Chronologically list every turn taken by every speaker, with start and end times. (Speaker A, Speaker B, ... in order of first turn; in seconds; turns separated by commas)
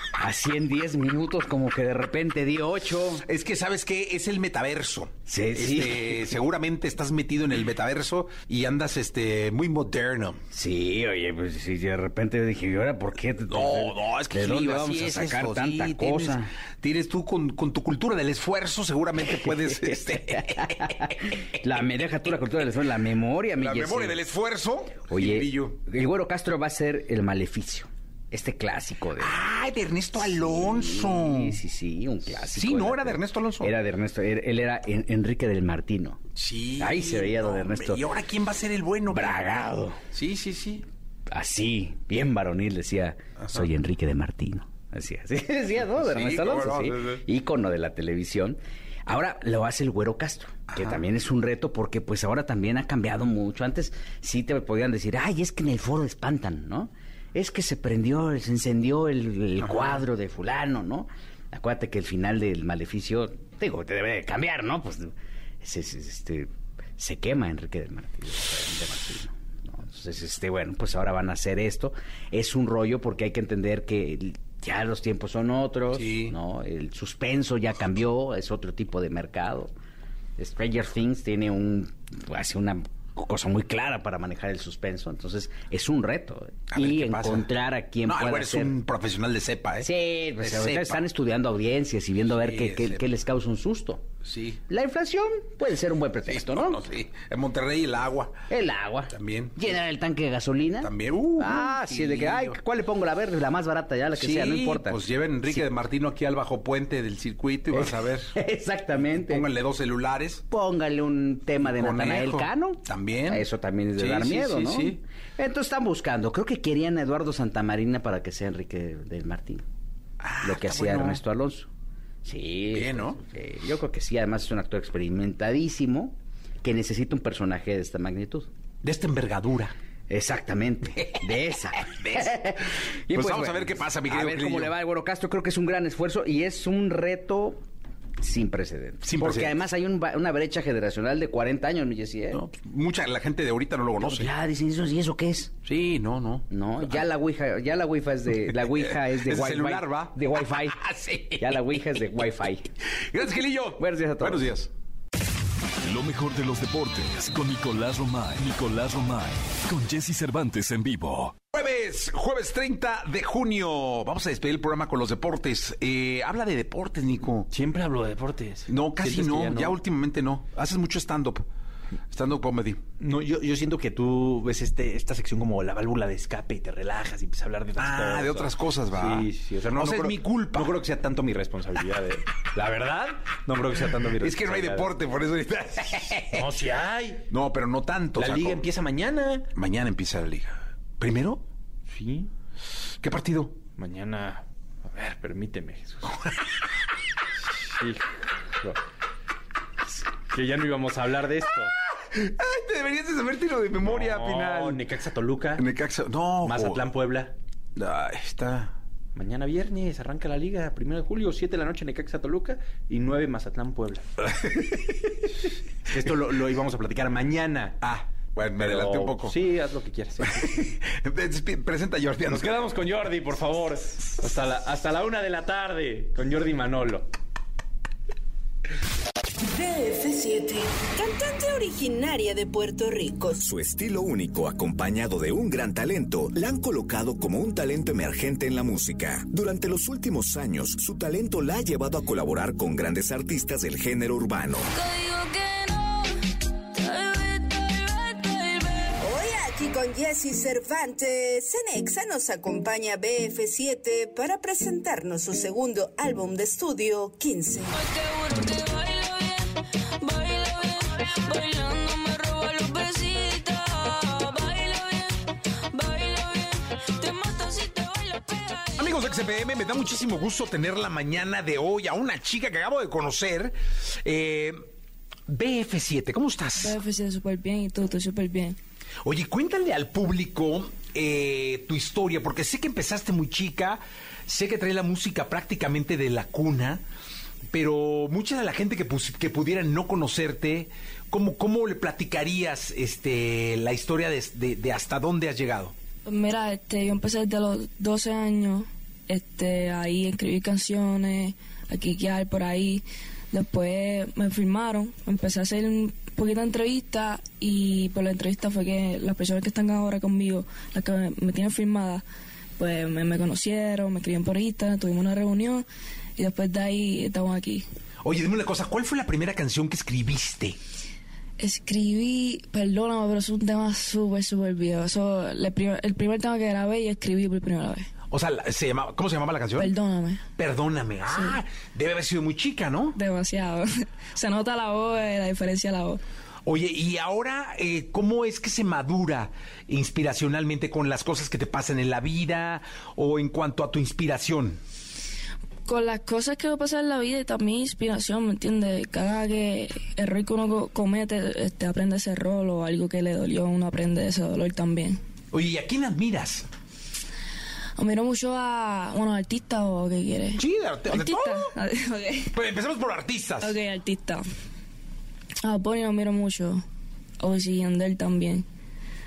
Speaker A: 0.1-3.2, Speaker B: 3.2-10.4, Speaker A: 5.3-6.4, Speaker A: 10.5-16.5, Speaker B: 13.5-21.2, Speaker A: 19.4-24.2, Speaker B: 23.6-25.8, Speaker A: 25.1-29.4, Speaker B: 29.2-31.6, Speaker A: 30.2-36.2, Speaker B: 32.4-33.7, Speaker B: 36.4-39.4, Speaker A: 36.8-38.1, Speaker A: 39.1-40.0, Speaker B: 40.1-40.9, Speaker A: 41.3-79.7, Speaker B: 43.4-43.7, Speaker B: 45.8-47.2, Speaker B: 50.7-51.0, Speaker B: 59.6-60.0, Speaker B: 75.9-76.3, Speaker A: 80.4-88.8, Speaker B: 86.7-87.5, Speaker B: 88.0-91.0, Speaker A: 89.8-94.1, Speaker B: 92.4-93.0, Speaker B: 94.2-94.6, Speaker A: 94.7-96.8, Speaker B: 96.3-98.4, Speaker A: 98.5-105.7, Speaker B: 99.1-99.8, Speaker B: 100.8-102.6, Speaker B: 104.2-108.3, Speaker A: 107.7-109.5, Speaker B: 109.0-110.4, Speaker A: 110.5-119.6, Speaker B: 111.6-113.4, Speaker B: 114.0-115.0, Speaker B: 120.2-121.2, Speaker A: 120.4-121.7, Speaker A: 122.2-128.5, Speaker B: 122.7-123.2, Speaker B: 128.8-129.7, Speaker A: 130.1-137.6, Speaker B: 131.8-134.7, Speaker A: 138.2-142.4, Speaker B: 139.1-139.5, Speaker B: 142.3-144.3, Speaker A: 144.0-145.5, Speaker B: 145.7-147.1, Speaker A: 146.5-150.8, Speaker B: 148.6-150.2, Speaker B: 150.8-151.5, Speaker A: 151.4-152.7, Speaker B: 153.0-154.7, Speaker A: 153.8-154.5, Speaker C: 155.8-161.3, Speaker B: 161.5-167.5, Speaker D: 167.5-169.8, Speaker B: 168.7-171.4, Speaker B: 172.1-172.8, Speaker D: 173.0-184.9, Speaker B: 177.8-180.8, Speaker B: 184.2-186.5, Speaker D: 186.3-187.2, Speaker B: 187.3-188.6, Speaker D: 188.2-189.5, Speaker B: 189.5-191.4, Speaker D: 191.9-192.3, Speaker B: 193.0-193.6, Speaker D: 193.8-196.1, Speaker D: 197.7-198.1, Speaker D: 200.3-201.7, Speaker B: 201.9-204.8, Speaker D: 203.8-205.7, Speaker B: 205.6-206.9, Speaker D: 206.4-207.3, Speaker B: 207.8-208.8, Speaker D: 209.2-214.1, Speaker B: 214.3-214.8, Speaker D: 215.9-217.8, Speaker B: 217.8-219.3, Speaker D: 218.6-220.7, Speaker B: 220.4-222.5, Speaker D: 222.3-227.1, Speaker E: 229.5-233.4, Speaker F: 233.4-244.7, Speaker G: 244.7-246.2, Speaker G: 246.8-249.0, Speaker E: 249.0-257.7, Speaker G: 257.7-269.0, Speaker B: 268.8-274.6, Speaker B: 275.3-276.8, Speaker G: 276.6-278.6, Speaker B: 279.0-286.8, Speaker B: 287.5-295.7, Speaker G: 296.1-312.0, Speaker G: 312.6-315.7, Speaker G: 316.2-317.6, Speaker B: 318.0-320.6, Speaker G: 321.4-327.9, Speaker B: 328.1-329.7, Speaker G: 329.6-330.2, Speaker B: 330.4-333.0, Speaker G: 332.9-336.0, Speaker B: 336.4-344.6, Speaker G: 345.7-355.0, Speaker B: 355.3-356.5, Speaker G: 357.8-362.3, Speaker B: 360.4-361.5, Speaker B: 362.3-363.6, Speaker G: 363.4-364.2, Speaker G: 365.4-366.6, Speaker G: 367.2-368.4